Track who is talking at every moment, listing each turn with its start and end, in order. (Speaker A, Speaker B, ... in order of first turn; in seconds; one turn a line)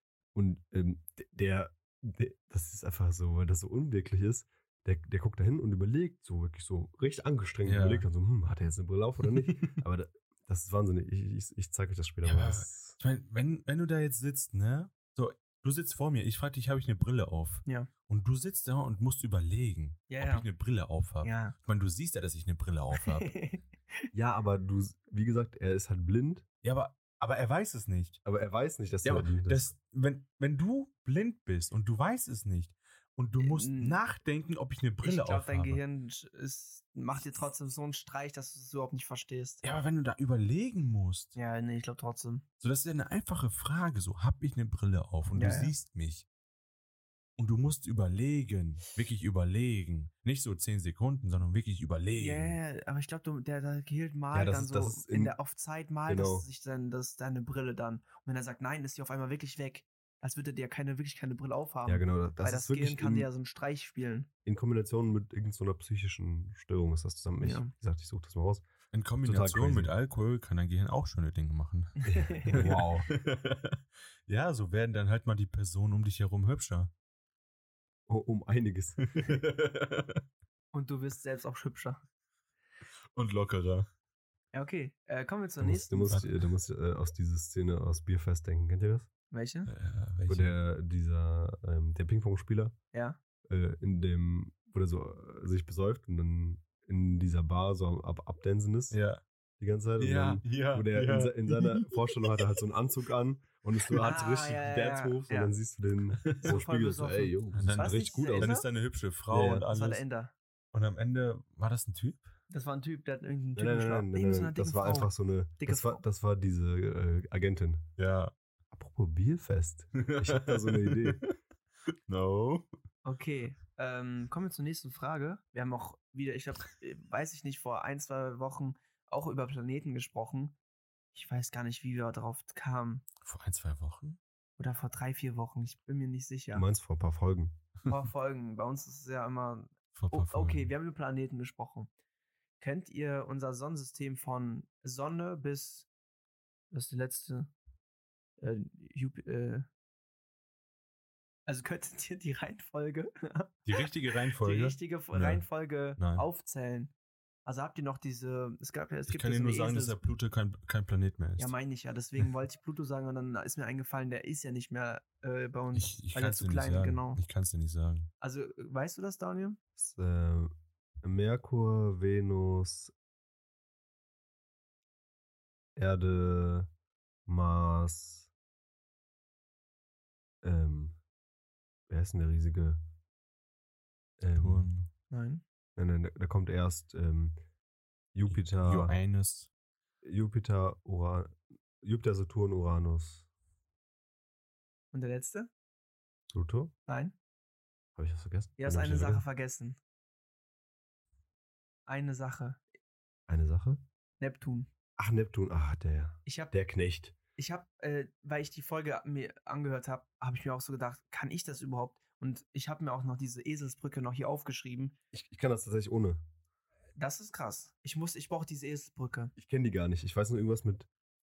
Speaker A: 0.3-13.0
Speaker B: 7.6-8.0
Speaker B: 9.3-9.8
Speaker B: 12.2-23.3
Speaker C: 20.1-20.5
Speaker C: 21.2-21.5
Speaker C: 22.9-24.1
Speaker A: 24.1-26.4
Speaker B: 26.6-28.2
Speaker A: 28.2-29.7
Speaker B: 29.0-35.8
Speaker C: 33.4-34.0
Speaker C: 35.0-39.6
Speaker B: 39.6-41.4
Speaker C: 41.4-42.4
Speaker B: 42.6-46.2
Speaker C: 45.3-45.7
Speaker B: 47.4-52.5
Speaker C: 52.2-64.3
Speaker A: 54.3-55.3
Speaker A: 56.1-56.5
Speaker A: 61.9-63.3
Speaker A: 64.4-68.7
Speaker C: 67.4-67.7
Speaker B: 68.9-71.9
Speaker A: 69.2-69.9
Speaker C: 72.0-72.6
Speaker A: 72.0-73.1
Speaker B: 72.5-76.9
Speaker A: 78.1-79.1
Speaker B: 79.1-80.2
Speaker C: 80.7-82.0
Speaker B: 83.1-83.9
Speaker C: 84.5-86.2
Speaker A: 85.6-89.1
Speaker C: 89.3-89.7
Speaker B: 89.7-90.5
Speaker A: 90.3-92.8
Speaker C: 92.9-93.2
Speaker A: 93.5-99.0
Speaker B: 98.9-99.2
Speaker A: 99.6-108.5
Speaker B: 100.0-102.5
Speaker C: 104.0-105.5
Speaker B: 106.2-106.5
Speaker C: 106.4-108.7
Speaker B: 107.5-110.0
Speaker A: 109.3-109.6
Speaker C: 109.6-110.3
Speaker B: 110.7-112.3
Speaker C: 112.5-116.0
Speaker A: 113.5-117.8
Speaker B: 118.0-118.3
Speaker A: 118.7-121.2
Speaker B: 120.0-121.3
Speaker B: 122.1-122.7
Speaker C: 123.0-130.5
Speaker C: 131.1-133.0
Speaker B: 133.2-134.2
Speaker C: 134.6-136.7
Speaker A: 136.5-137.6
Speaker C: 137.9-141.9
Speaker B: 139.9-140.7
Speaker C: 142.6-145.9
Speaker C: 146.7-147.5
Speaker C: 148.4-149.7
Speaker C: 151.4-156.9
Speaker B: 153.7-155.4
Speaker B: 156.0-156.2
Speaker C: 157.4-160.1
Speaker B: 159.1-161.5
Speaker C: 161.4-167.2
Speaker B: 165.7-168.1
Speaker C: 168.2-169.6
Speaker A: 169.8-172.9
Speaker A: 175.8-176.7
Speaker A: 177.2-178.3
Speaker A: 180.4-181.0
Speaker A: 181.9-182.8
Speaker A: 184.2-184.7
Speaker B: 184.3-184.9
Speaker C: 185.1-185.4
Speaker A: 185.8-187.4
Speaker A: 188.1-188.9
Speaker B: 188.3-189.5
Speaker A: 190.0-193.3
Speaker C: 194.9-195.5
Speaker A: 196.3-196.7
Speaker C: 196.9-197.1
Speaker A: 197.9-199.2
Speaker C: 198.6-199.8
Speaker C: 201.9-202.6
Speaker A: 203.3-203.8
Speaker C: 204.2-204.7
Speaker A: 205.0-207.1
Speaker C: 206.2-206.5
Speaker C: 207.4-214.9
Speaker A: 215.1-216.2
Speaker C: 217.0-219.3
Speaker A: 219.4-220.9